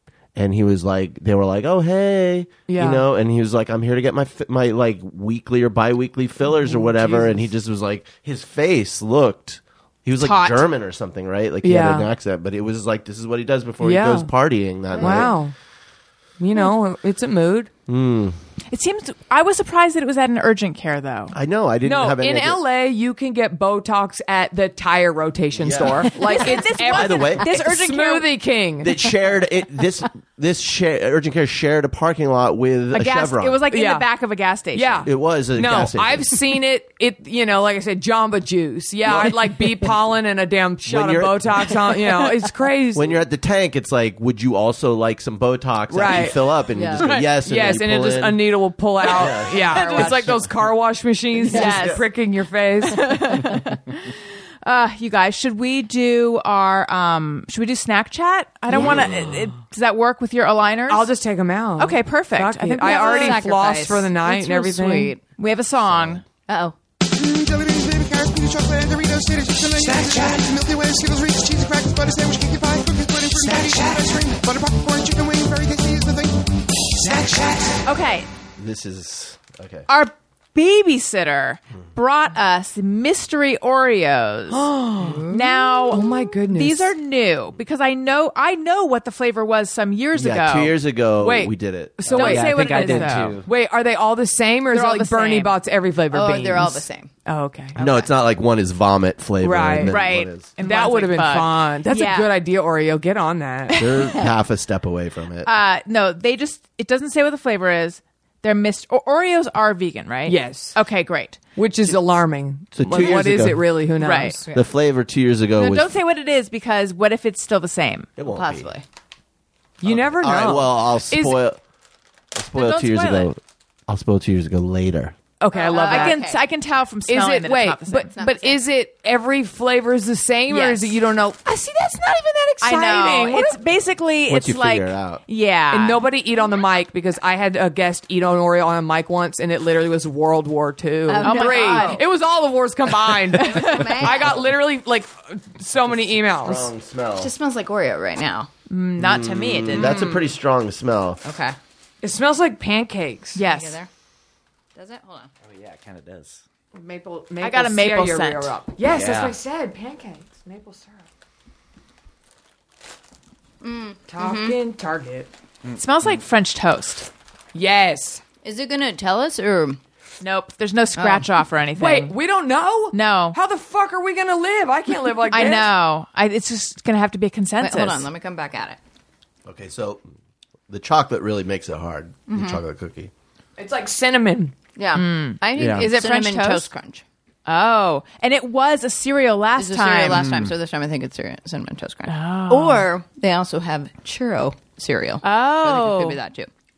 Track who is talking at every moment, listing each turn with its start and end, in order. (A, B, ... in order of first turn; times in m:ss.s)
0:00.4-0:15.4 A
0:02.7-0:03.0 B
0:06.5-0:07.4 B
0:10.2-0:10.7 C
0:11.6-0:12.1 B
0:13.8-0:14.3 B
0:15.0-0:15.5 B
0:16.4-0:17.7 B
0:17.9-0:18.4 A
0:18.7-0:21.4 C
0:21.3-0:22.6 A
0:21.8-0:29.0 B
0:25.6-0:26.3 A
0:26.1-0:28.3 C
0:26.8-0:27.5 A
0:28.8-0:33.6 A
0:32.9-0:35.1 C
0:33.7-0:34.1 B
0:34.7-0:43.2 B
0:35.1-0:36.3 A
0:39.1-0:39.3 A
0:40.9-0:41.6 A
0:42.9-0:48.4 A
0:45.9-0:46.4 B
0:46.7-0:47.2 D
0:47.0-0:47.3 C
0:47.4-0:53.3 B
0:49.1-0:50.4 A
0:49.7-0:50.2 C
0:51.5-0:52.0 C
0:51.5-0:51.9 D
0:51.6-0:52.0 A
0:52.8-0:54.1 C
0:54.6-1:01.1 C
1:00.9-1:05.2 B
1:01.8-1:03.4 C
1:02.8-1:05.2 D
1:05.4-1:06.2 C
1:05.8-1:06.2 A
1:06.5-1:06.8 D
1:07.2-1:16.3 E
1:17.0-1:17.8 E
1:17.8-1:18.3 C
1:18.6-1:19.9 A
1:19.9-1:24.6 C
1:24.5-1:25.3 B
1:25.0-1:26.0 D
1:25.3-1:30.7 C
1:25.9-1:26.9 B
1:30.2-1:32.4 A
1:31.2-1:37.7 B
1:32.1-1:33.5 F
1:32.1-1:33.4 C
1:34.7-1:35.6 C
1:36.1-1:37.1 D
1:37.3-1:37.7 C
1:37.8-1:38.1 D
1:37.8-1:40.5 A
1:39.4-1:40.0 B
1:39.8-1:42.3 C
1:40.6-1:43.9 B
1:43.7-1:44.2 C
1:43.8-1:45.5 A
1:45.4-1:51.4 C
1:50.3-1:50.8 B
1:51.6-1:54.5 B
1:52.8-1:53.7 A
1:54.0-1:54.4 C
1:54.5-1:55.9 A
1:55.6-1:58.1 C
1:58.2-1:58.7 A
1:58.3-1:58.8 D
1:59.8-2:01.4 B
1:59.8-2:01.6 A
2:02.4-2:05.2 A
2:02.6-2:03.3 C
2:05.4-2:06.2 B
2:05.5-2:06.4 D
2:05.7-2:08.1 C
2:07.1-2:13.6 B
2:08.1-2:08.6 D
2:10.5-2:11.0 C
2:12.6-2:16.0 C
2:14.3-2:15.2 A
2:15.7-2:26.7 B
2:21.1-2:22.1 D
2:21.2-2:22.0 C
2:23.3-2:24.2 C
2:23.4-2:24.5 D
2:26.4-2:27.3 A
2:27.2-2:28.5 D
2:28.7-2:30.0 C
2:29.0-2:31.2 A
2:29.8-2:30.3 B
2:31.2-2:31.6 D
2:32.0-2:33.4 B
2:33.4-2:33.8 C
2:33.4-2:33.9 D
2:34.8-2:35.3 D
2:35.4-2:36.4 F
2:36.7-2:41.0 B
2:37.4-2:38.5 C
2:38.8-2:39.4 F
2:43.6-2:44.6 D
2:44.1-2:45.3 B
2:45.8-2:47.1 C
2:47.5-2:48.2 B
2:48.4-2:49.8 D
2:50.2-2:52.2 C
2:51.0-2:51.3 D
2:51.8-2:55.7 B
2:52.9-2:53.4 C
2:55.3-2:58.1 C
2:57.6-2:58.8 D
2:59.4-3:00.0 A
3:00.7-3:03.1 A
3:02.3-3:02.6 D
3:03.6-3:04.5 B
3:04.8-3:07.0 D
3:05.0-3:06.7 C
3:05.6-3:05.9 F
3:07.5-3:10.3 C
3:09.6-3:16.5 D
3:10.1-3:10.5 F
3:12.1-3:12.9 C
3:15.2-3:16.2 C